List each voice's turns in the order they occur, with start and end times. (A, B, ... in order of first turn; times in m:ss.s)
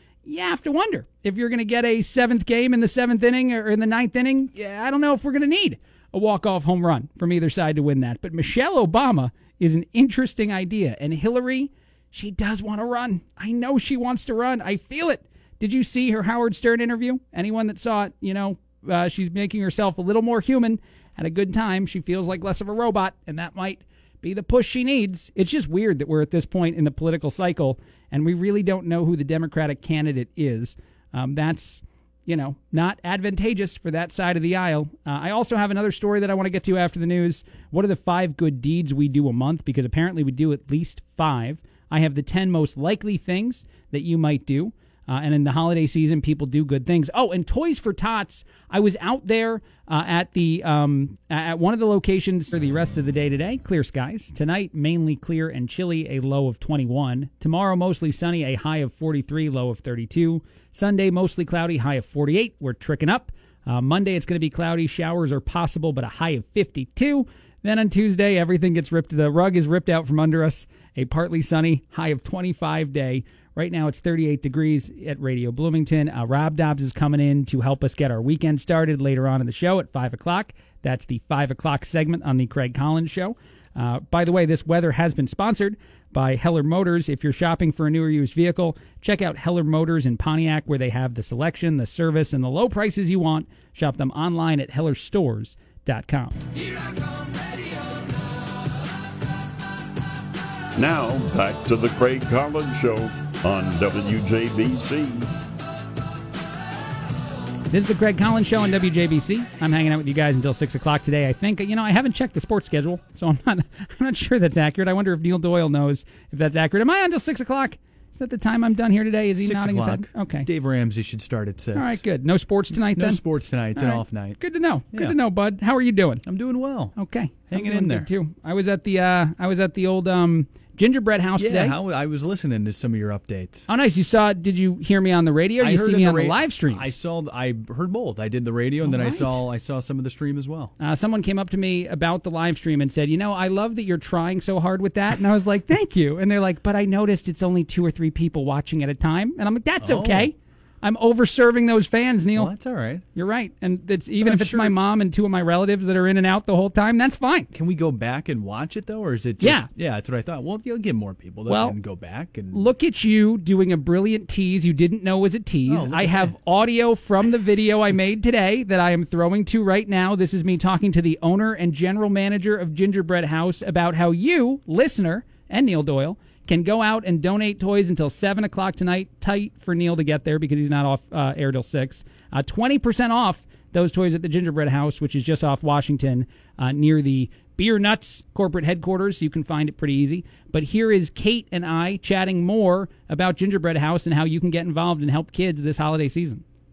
0:00.2-1:36.4 A
1:40.8-1:45.3 B
1:47.7-2:00.5 A
1:59.4-2:02.0 C
2:01.7-2:03.2 A
2:02.8-2:04.4 C
2:03.7-2:06.2 A
2:06.2-2:06.9 C
2:06.9-2:11.8 A
2:07.5-2:08.1 C
2:11.4-2:13.7 C
2:13.7-2:16.9 A
2:15.6-2:20.7 C
2:18.8-2:19.4 A
2:20.8-2:32.5 A
2:29.8-2:30.3 C
2:32.3-2:33.0 C
2:33.1-2:37.5 A
2:34.2-2:34.8 C
2:37.5-2:42.6 C
2:39.4-2:39.7 A
2:41.5-2:41.8 A
2:42.5-3:16.4 A
2:45.7-2:46.3 C